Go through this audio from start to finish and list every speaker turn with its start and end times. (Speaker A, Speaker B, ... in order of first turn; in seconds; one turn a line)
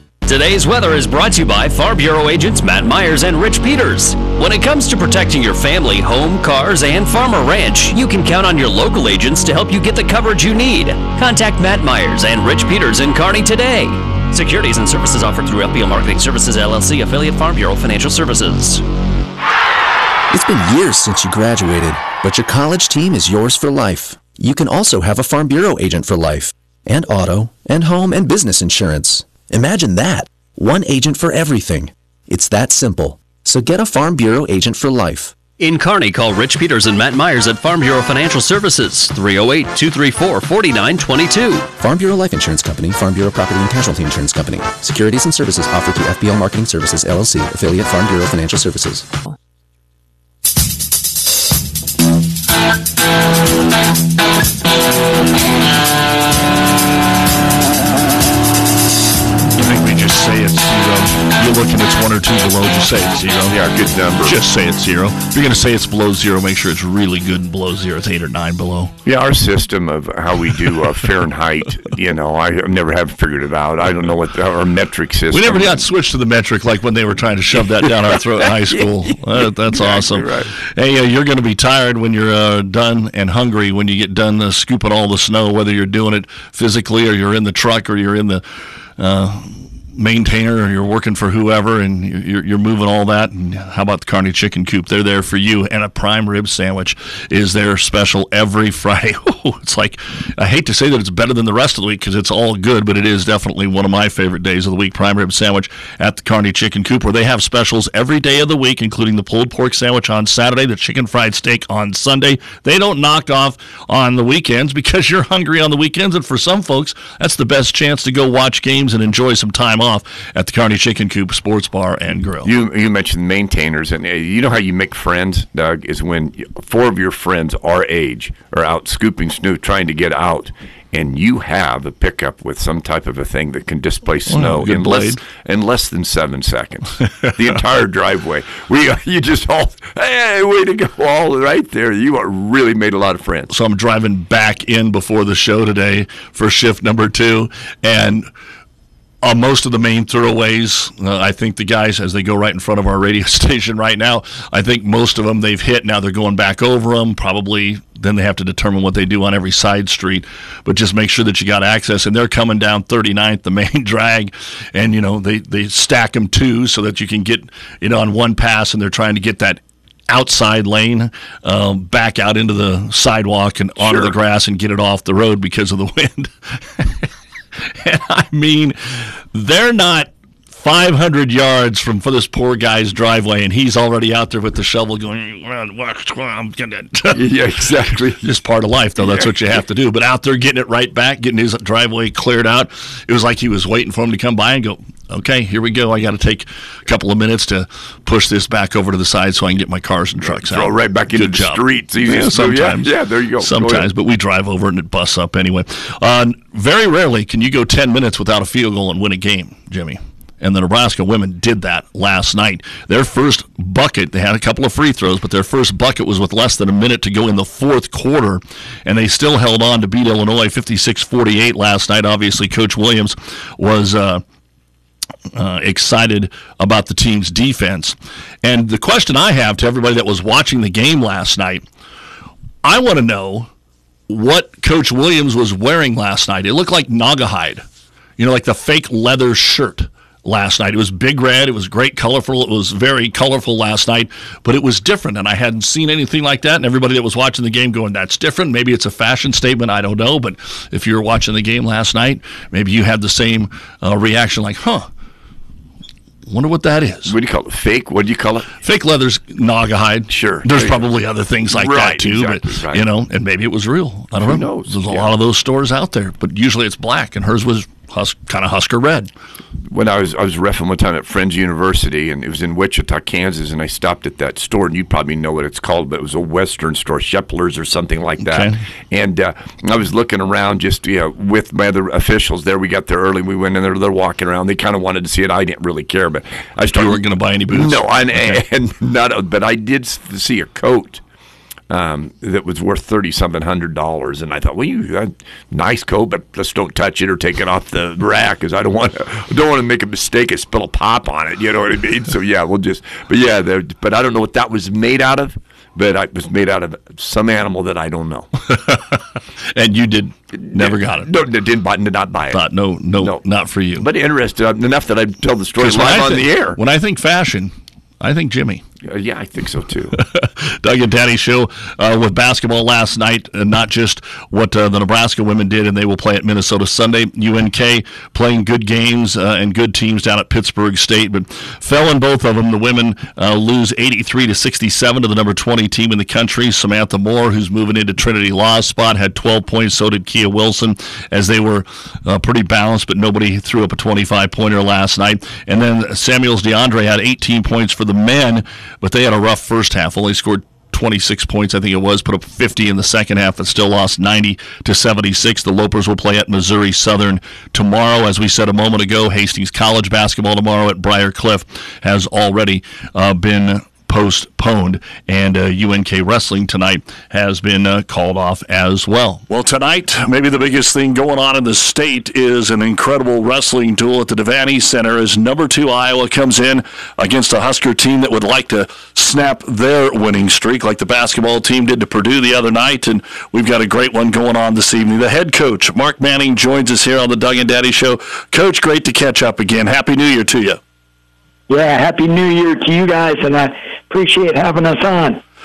Speaker A: 0.2-18.8
Speaker B: 20.3-35.3
Speaker A: 35.6-41.7
Speaker B: 41.8-49.1
Speaker C: 59.6-63.6
Speaker D: 63.5-64.4
Speaker C: 64.2-68.9
Speaker D: 69.0-75.8
Speaker C: 75.3-88.4
Speaker D: 78.1-78.8
Speaker D: 79.4-80.5
Speaker C: 89.0-122.5
Speaker D: 122.4-143.5
Speaker C: 134.3-135.2
Speaker C: 143.5-148.3
Speaker C: 149.2-177.1
Speaker D: 173.8-174.1
Speaker C: 177.8-178.8
Speaker C: 179.3-187.2
Speaker D: 187.1-188.2
Speaker C: 188.1-202.9
Speaker D: 189.0-189.3
Speaker D: 200.3-203.9
Speaker C: 203.4-224.2
Speaker C: 225.3-231.6
Speaker C: 232.6-233.5
Speaker C: 234.1-237.6
Speaker C: 238.2-254.9
Speaker C: 256.3-257.1
Speaker D: 257.1-258.5
Speaker C: 258.6-269.1
Speaker D: 260.1-260.8
Speaker D: 261.5-262.8
Speaker D: 264.2-265.1
Speaker D: 269.7-291.0
Speaker C: 278.2-278.6
Speaker C: 286.7-288.4
Speaker D: 291.7-308.3
Speaker C: 308.5-309.0
Speaker C: 309.5-311.1
Speaker D: 310.4-312.4
Speaker C: 312.3-313.9
Speaker D: 313.8-316.6
Speaker C: 315.6-318.6
Speaker D: 318.8-319.9
Speaker C: 320.0-390.6
Speaker E: 391.5-395.2